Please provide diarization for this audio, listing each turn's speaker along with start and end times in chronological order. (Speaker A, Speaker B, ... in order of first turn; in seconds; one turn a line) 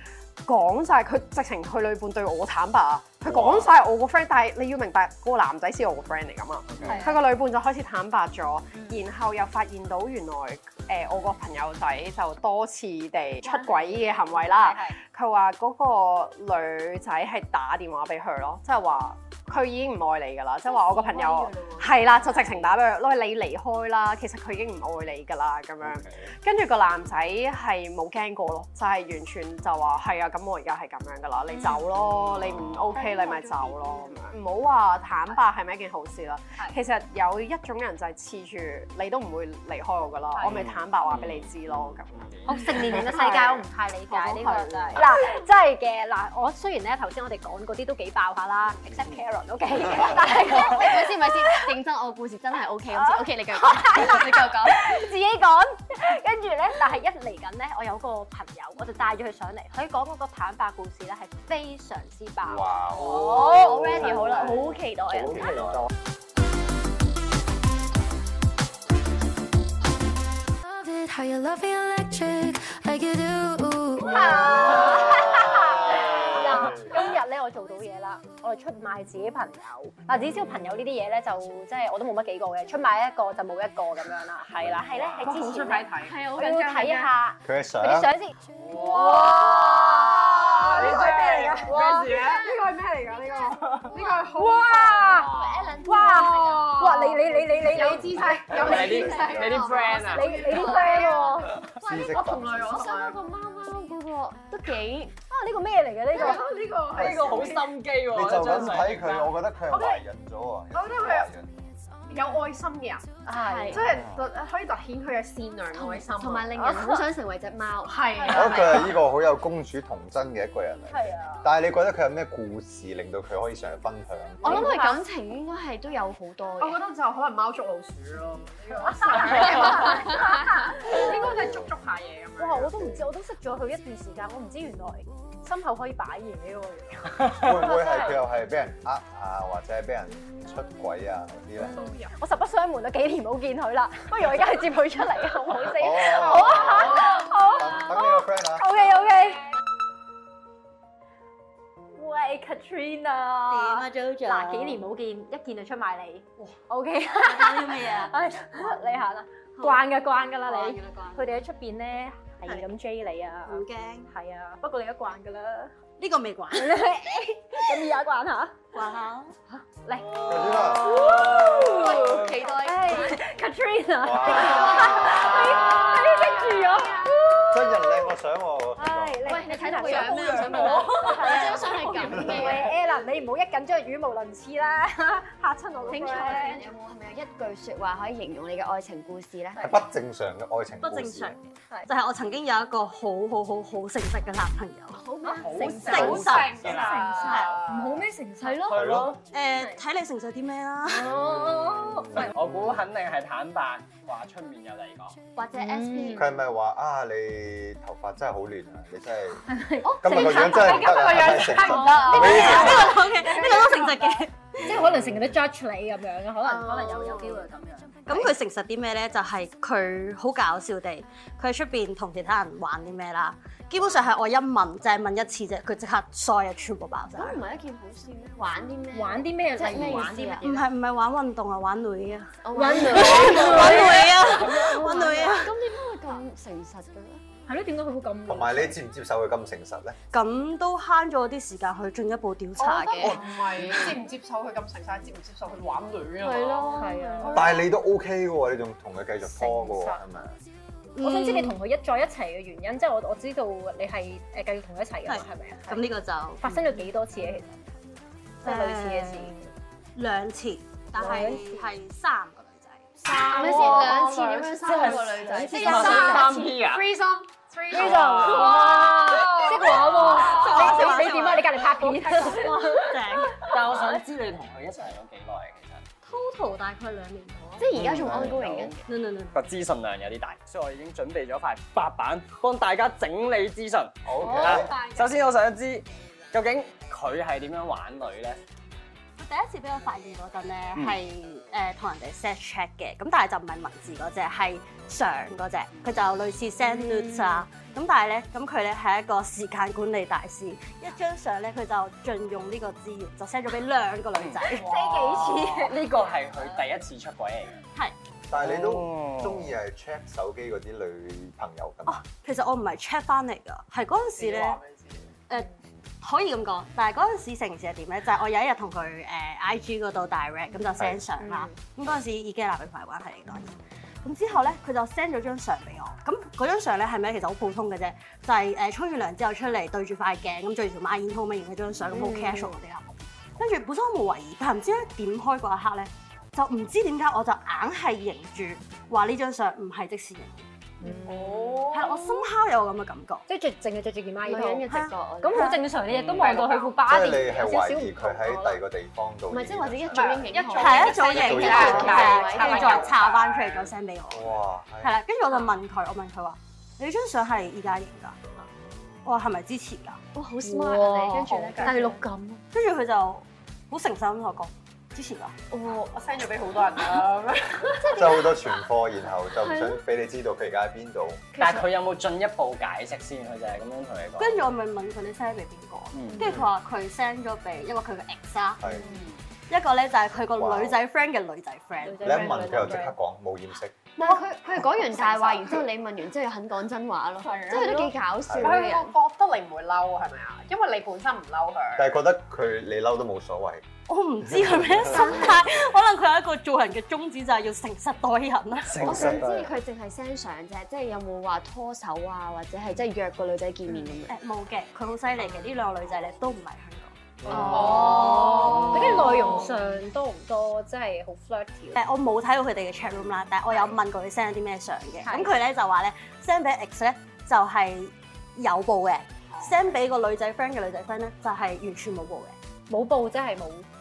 Speaker A: 0.5-45.1
Speaker B: 3.3-3.7
Speaker B: 6.7-7.0
Speaker C: 6.8-7.2
Speaker C: 8.7-9.0
Speaker C: 13.4-15.0
Speaker D: 20.7-22.7
Speaker E: 32.2-32.8
Speaker E: 40.5-42.9
Speaker C: 42.5-51.6
Speaker D: 50.0-55.0
Speaker C: 52.9-62.8
Speaker B: 62.4-64.6
Speaker D: 62.9-65.6
Speaker B: 65.1-65.9
Speaker E: 65.3-65.9
Speaker F: 70.6-74.6
Speaker C: 74.0-92.1
Speaker B: 75.1-75.5
Speaker E: 75.9-76.5
Speaker A: 85.2-87.1
Speaker D: 86.1-87.0
Speaker B: 87.4-88.1
Speaker A: 88.7-103.2
Speaker E: 89.4-89.8
Speaker E: 90.7-92.3
Speaker D: 93.9-94.3
Speaker C: 94.3-98.3
Speaker D: 95.1-96.7
Speaker E: 98.5-100.5
Speaker D: 98.5-105.1
Speaker C: 100.1-101.6
Speaker B: 101.7-102.9
Speaker C: 105.3-106.5
Speaker A: 106.1-107.7
Speaker E: 106.9-109.3
Speaker B: 108.1-111.6
Speaker A: 109.7-110.0
Speaker A: 110.7-111.3
Speaker A: 112.1-116.9
Speaker C: 113.2-113.8
Speaker D: 113.3-113.8
Speaker D: 115.8-118.8
Speaker C: 116.6-117.0
Speaker A: 117.8-119.0
Speaker C: 118.2-118.5
Speaker B: 118.3-124.7
Speaker C: 120.9-121.5
Speaker C: 124.4-125.0
Speaker A: 124.4-125.0
Speaker D: 124.4-126.8
Speaker A: 126.6-132.7
Speaker C: 128.8-131.3
Speaker B: 131.2-131.7
Speaker C: 132.4-138.2
Speaker B: 132.6-133.1
Speaker B: 137.3-141.8
Speaker C: 141.6-149.5
Speaker A: 141.7-142.1
Speaker B: 145.7-148.7
Speaker C: 152.0-165.7
Speaker G: 153.5-154.9
Speaker G: 157.1-158.8
Speaker G: 159.6-159.9
Speaker G: 160.5-161.4
Speaker G: 163.5-164.1
Speaker G: 166.0-166.9
Speaker C: 166.5-168.6
Speaker G: 168.7-169.3
Speaker C: 169.6-178.1
Speaker B: 170.2-171.3
Speaker D: 171.1-173.2
Speaker B: 174.0-175.8
Speaker D: 174.4-177.1
Speaker A: 175.6-177.1
Speaker B: 177.5-179.4
Speaker C: 178.8-186.7
Speaker D: 179.2-182.7
Speaker A: 179.9-181.5
Speaker G: 181.4-181.8
Speaker D: 185.9-189.8
Speaker A: 186.2-186.5
Speaker B: 189.6-191.4
Speaker G: 190.8-196.7
Speaker D: 194.9-196.2
Speaker C: 195.2-198.8
Speaker E: 195.4-197.2
Speaker A: 195.7-198.0
Speaker G: 197.2-197.6
Speaker D: 198.4-198.8
Speaker E: 198.7-199.2
Speaker B: 198.7-199.1
Speaker G: 199.3-201.2
Speaker C: 200.9-202.3
Speaker B: 202.1-202.8
Speaker E: 202.1-205.2
Speaker D: 205.4-206.4
Speaker C: 205.6-206.3
Speaker B: 206.1-213.0
Speaker C: 209.5-213.8
Speaker A: 210.1-214.3
Speaker G: 211.8-214.9
Speaker C: 214.6-218.3
Speaker B: 214.8-215.3
Speaker A: 216.5-217.4
Speaker G: 218.1-227.4
Speaker D: 227.1-230.4
Speaker C: 228.9-230.7
Speaker G: 230.4-235.6
Speaker D: 232.4-237.2
Speaker C: 232.5-235.3
Speaker C: 237.5-238.8
Speaker B: 238.3-240.0
Speaker G: 240.1-243.2
Speaker A: 242.6-247.6
Speaker D: 246.2-247.6
Speaker C: 246.7-247.6
Speaker B: 247.3-250.3
Speaker C: 249.3-250.0
Speaker G: 251.0-251.6
Speaker C: 251.0-257.6
Speaker G: 255.1-256.9
Speaker C: 258.4-259.5
Speaker G: 258.4-259.4
Speaker G: 260.0-263.0
Speaker C: 260.9-261.7
Speaker A: 263.0-271.3
Speaker D: 263.1-266.5
Speaker C: 263.3-263.9
Speaker E: 264.6-266.9
Speaker C: 265.4-266.3
Speaker C: 267.7-273.8
Speaker G: 269.8-273.5
Speaker A: 271.9-272.9
Speaker E: 273.4-275.9
Speaker G: 276.0-278.2
Speaker D: 277.6-278.9
Speaker E: 277.8-278.8
Speaker G: 278.9-279.4
Speaker E: 279.3-288.4
Speaker B: 284.1-284.7
Speaker A: 284.3-285.0
Speaker G: 289.2-304.8
Speaker C: 296.8-297.5
Speaker E: 304.1-304.4
Speaker C: 304.4-305.8
Speaker A: 304.5-305.2
Speaker E: 305.2-307.6
Speaker B: 308.3-312.0
Speaker E: 308.4-309.5
Speaker G: 311.9-314.6
Speaker A: 314.0-315.1
Speaker G: 315.3-340.5
Speaker D: 331.9-332.5
Speaker C: 340.8-341.5
Speaker A: 341.1-342.0
Speaker G: 341.7-343.2
Speaker C: 343.3-344.7
Speaker D: 344.2-345.6
Speaker G: 344.7-345.6
Speaker C: 345.2-348.6
Speaker E: 345.9-346.4
Speaker A: 346.1-346.8
Speaker B: 346.8-350.2
Speaker D: 349.3-353.0
Speaker A: 349.9-353.7
Speaker G: 350.5-358.2
Speaker B: 351.1-352.2
Speaker B: 354.1-355.0
Speaker G: 359.1-360.0
Speaker D: 360.1-362.0
Speaker C: 360.4-362.4
Speaker A: 361.2-361.9
Speaker G: 362.5-365.3
Speaker A: 365.6-368.4
Speaker B: 367.9-371.3
Speaker E: 371.4-374.5
Speaker G: 374.2-378.6
Speaker E: 375.9-376.4
Speaker B: 378.6-378.9
Speaker A: 378.7-379.1
Speaker G: 379.5-382.6
Speaker B: 380.3-380.8
Speaker C: 381.8-383.0
Speaker B: 382.0-383.9
Speaker D: 384.0-389.0
Speaker A: 384.8-385.6
Speaker A: 387.2-391.9
Speaker B: 388.3-388.6
Speaker B: 391.8-393.6
Speaker G: 393.9-398.9
Speaker B: 394.3-395.1
Speaker D: 394.9-395.4
Speaker E: 398.7-399.5
Speaker B: 398.7-399.4
Speaker D: 398.8-404.2
Speaker G: 404.1-409.3
Speaker B: 407.2-408.0
Speaker C: 407.6-411.8
Speaker A: 407.8-408.2
Speaker G: 411.7-422.3
Speaker C: 415.0-415.4
Speaker C: 422.7-423.7